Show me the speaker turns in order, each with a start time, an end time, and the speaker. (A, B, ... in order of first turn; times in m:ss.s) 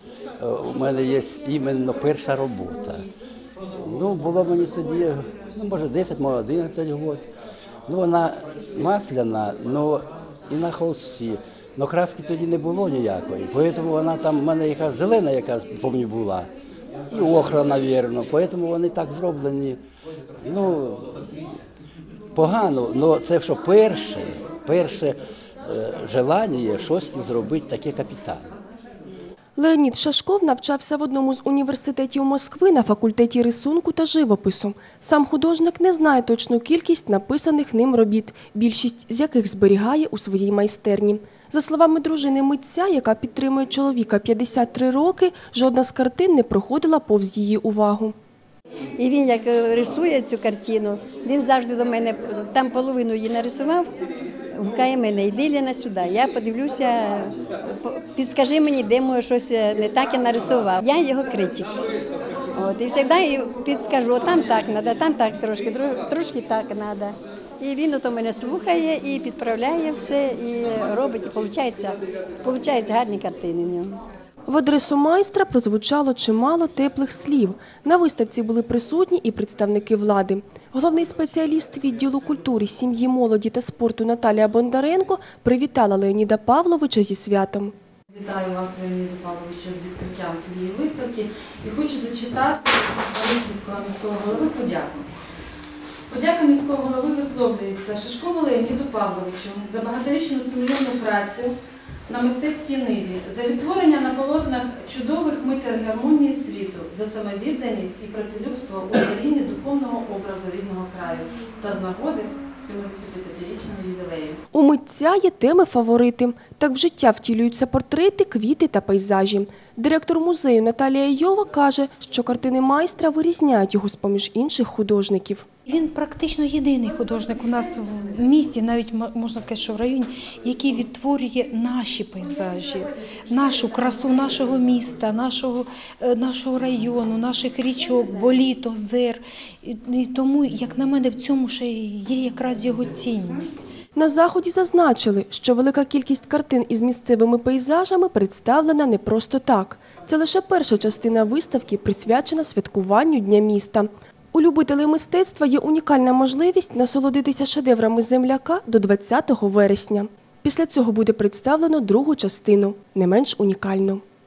0:00.4-0:03.0 A
0:03.8-0:07.3 A
0:07.9-0:16.5 A
0:17.1-0:19.8 A
0:20.4-0:21.1 A
0:22.3-0:28.5 A
0:29.6-0:48.1 B
0:49.0-0:53.9 C
0:54.6-1:01.7 C
1:02.6-1:14.0 C
1:14.5-1:27.7 B
1:28.1-1:35.1 D
1:36.1-1:41.5 D
1:42.1-1:54.4 D
1:54.5-2:05.4 B
2:05.7-2:23.6 E
2:24.0-2:44.0 B